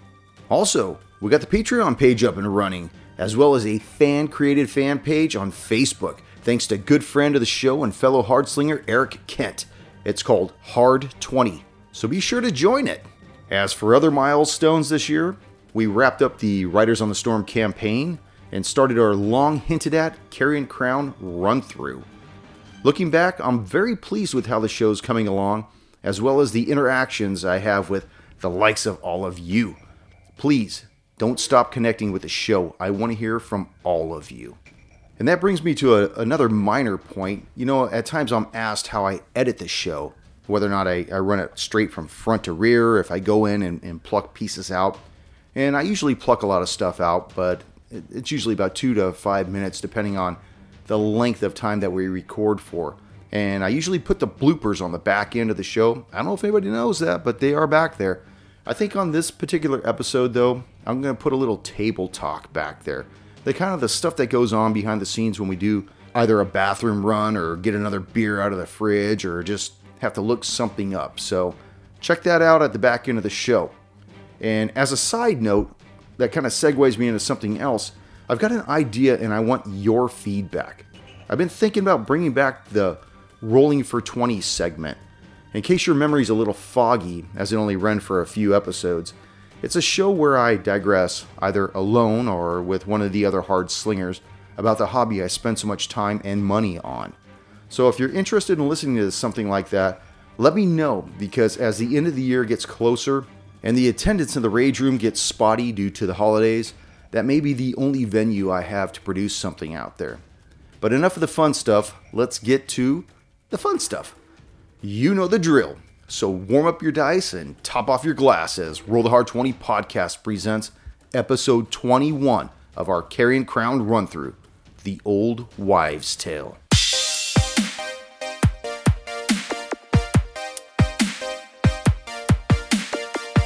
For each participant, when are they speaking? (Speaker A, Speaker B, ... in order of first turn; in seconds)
Speaker A: 0.5-22.1, 22.8-29.8, 30.4-34.6, 35.2-73.7, 74.4-85.0, 85.5-97.2, 97.7-110.2, 110.8-114.2, 114.8-126.6